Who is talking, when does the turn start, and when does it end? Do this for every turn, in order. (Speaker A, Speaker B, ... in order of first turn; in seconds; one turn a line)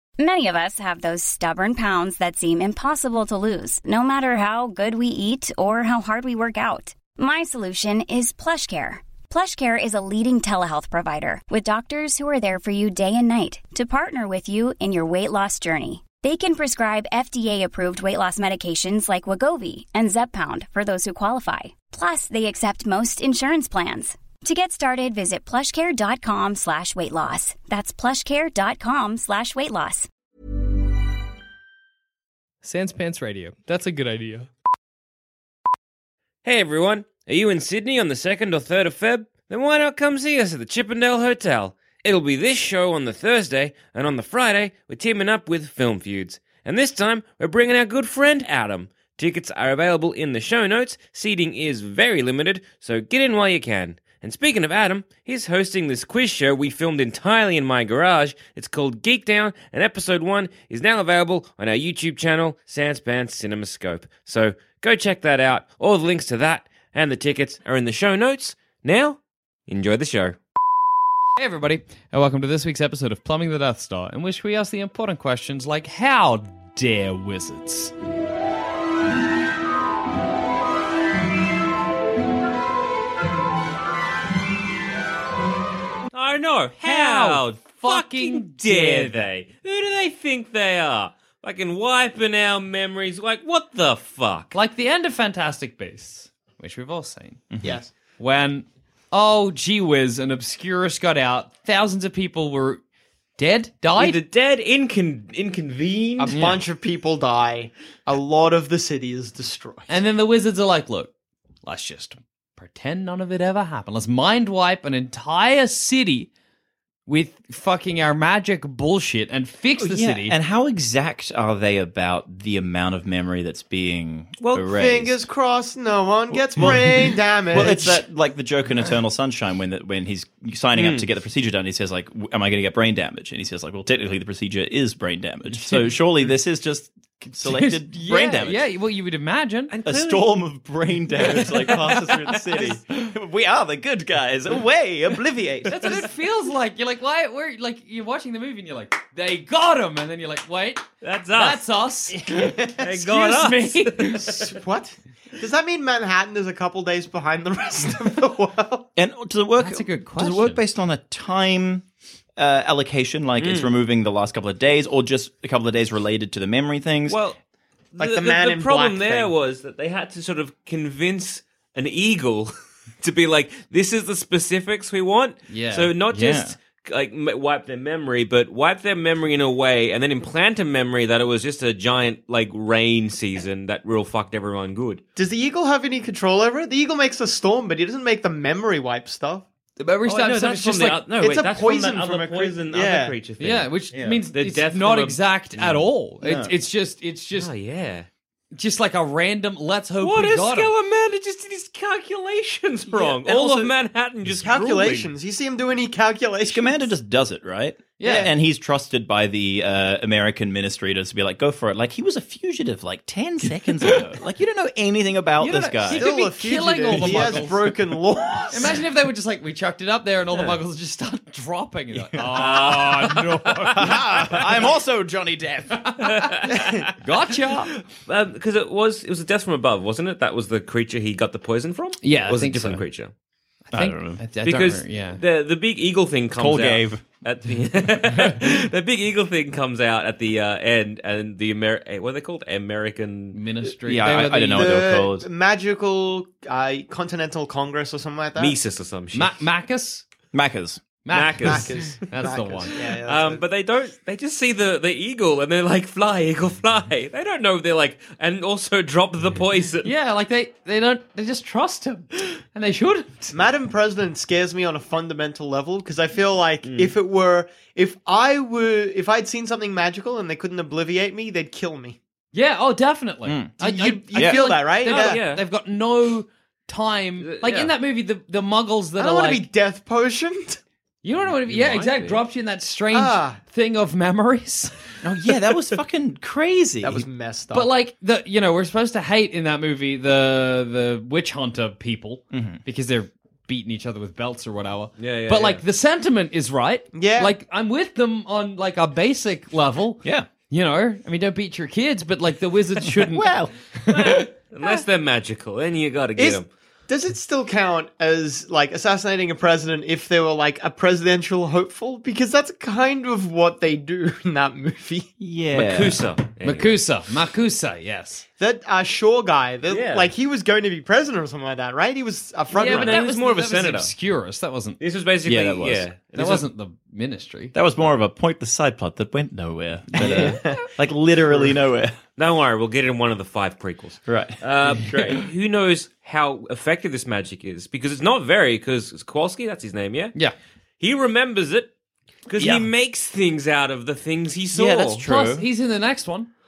Speaker A: 0.2-30.1
Speaker B: 32.6-34.5
Speaker C: 36.4-70.4
Speaker B: 71.4-77.9
Speaker C: 86.1-94.5
Speaker B: 86.8-89.2
Speaker B: 94.5-97.4
Speaker D: 97.5-97.8
Speaker E: 97.6-97.9
Speaker B: 98.2-102.8
Speaker B: 103.4-104.2
Speaker C: 104.0-106.4
Speaker E: 106.2-110.0
Speaker D: 106.3-106.6
Speaker B: 109.9-111.1
Speaker B: 111.6-116.3
Speaker B: 117.1-120.3
Speaker D: 119.8-125.2
Speaker E: 124.6-128.0
Speaker D: 126.5-138.7
Speaker C: 130.8-131.1
Speaker B: 135.5-135.9
Speaker B: 137.4-139.7
Speaker C: 139.7-140.4
Speaker D: 139.8-146.1
Speaker B: 141.2-142.8
Speaker B: 145.7-154.5
Speaker C: 151.0-151.6
Speaker C: 152.2-154.4
Speaker E: 154.5-158.9
Speaker D: 158.9-161.8
Speaker B: 159.6-160.6
Speaker D: 162.4-167.2
Speaker C: 163.4-163.7
Speaker C: 167.1-167.4
Speaker C: 167.9-185.0
Speaker E: 168.0-169.3
Speaker B: 175.5-175.9
Speaker D: 176.1-176.5
Speaker E: 185.2-189.4
Speaker B: 189.8-191.0
Speaker C: 190.1-195.7
Speaker E: 191.2-193.2
Speaker B: 193.4-197.5
Speaker D: 193.9-194.2
Speaker D: 195.7-196.5
Speaker C: 197.3-198.1
Speaker B: 198.5-200.7
Speaker C: 200.0-205.1
Speaker E: 202.9-203.6
Speaker D: 203.0-203.7
Speaker E: 204.3-206.9
Speaker D: 206.4-216.1
Speaker B: 208.0-208.3
Speaker B: 213.8-214.1
Speaker B: 215.4-217.7
Speaker E: 215.9-218.8
Speaker D: 216.9-217.4
Speaker B: 218.5-224.4
Speaker C: 220.3-220.6
Speaker D: 221.9-223.2
Speaker C: 222.3-223.1
Speaker D: 223.7-225.9
Speaker B: 225.8-226.3
Speaker C: 226.0-226.9
Speaker B: 227.0-227.7
Speaker C: 227.9-233.1
Speaker B: 232.0-232.8
Speaker B: 233.7-235.2
Speaker D: 233.7-234.2
Speaker C: 234.4-243.4
Speaker D: 236.3-237.0
Speaker B: 243.3-244.7
Speaker D: 243.8-245.3
Speaker E: 244.4-248.6
Speaker C: 248.4-249.4
Speaker B: 249.1-250.0
Speaker D: 250.3-250.8
Speaker B: 251.1-252.7
Speaker C: 251.1-252.1
Speaker E: 251.4-253.4
Speaker C: 252.7-259.9
Speaker B: 259.8-263.3
Speaker E: 263.3-272.0
Speaker C: 266.6-266.9
Speaker B: 272.3-279.5
Speaker D: 273.2-273.6
Speaker E: 273.6-275.2
Speaker D: 274.1-274.5
Speaker C: 274.8-275.4
Speaker C: 277.2-277.7
Speaker E: 279.0-280.6
Speaker B: 281.0-284.7
Speaker C: 281.2-282.2
Speaker E: 282.9-283.4
Speaker D: 285.0-287.1
Speaker E: 286.8-287.7
Speaker B: 287.5-304.3
Speaker D: 292.3-292.6
Speaker C: 295.0-295.6
Speaker E: 296.9-297.3
Speaker D: 300.0-300.3
Speaker D: 302.9-303.5
Speaker C: 303.9-306.5
Speaker E: 306.2-315.1
Speaker D: 315.2-316.0
Speaker C: 315.5-316.8
Speaker B: 316.4-318.2
Speaker E: 318.4-323.0
Speaker C: 319.7-320.1
Speaker B: 322.5-324.8
Speaker C: 322.6-323.9
Speaker C: 324.8-326.4
Speaker D: 325.2-325.9
Speaker B: 326.1-327.5
Speaker D: 327.5-332.0
Speaker E: 329.9-330.6
Speaker C: 332.2-340.1
Speaker D: 334.1-335.2
Speaker C: 340.8-341.7
Speaker C: 342.3-345.0
Speaker D: 342.4-342.6
Speaker D: 344.5-345.4
Speaker B: 345.0-346.3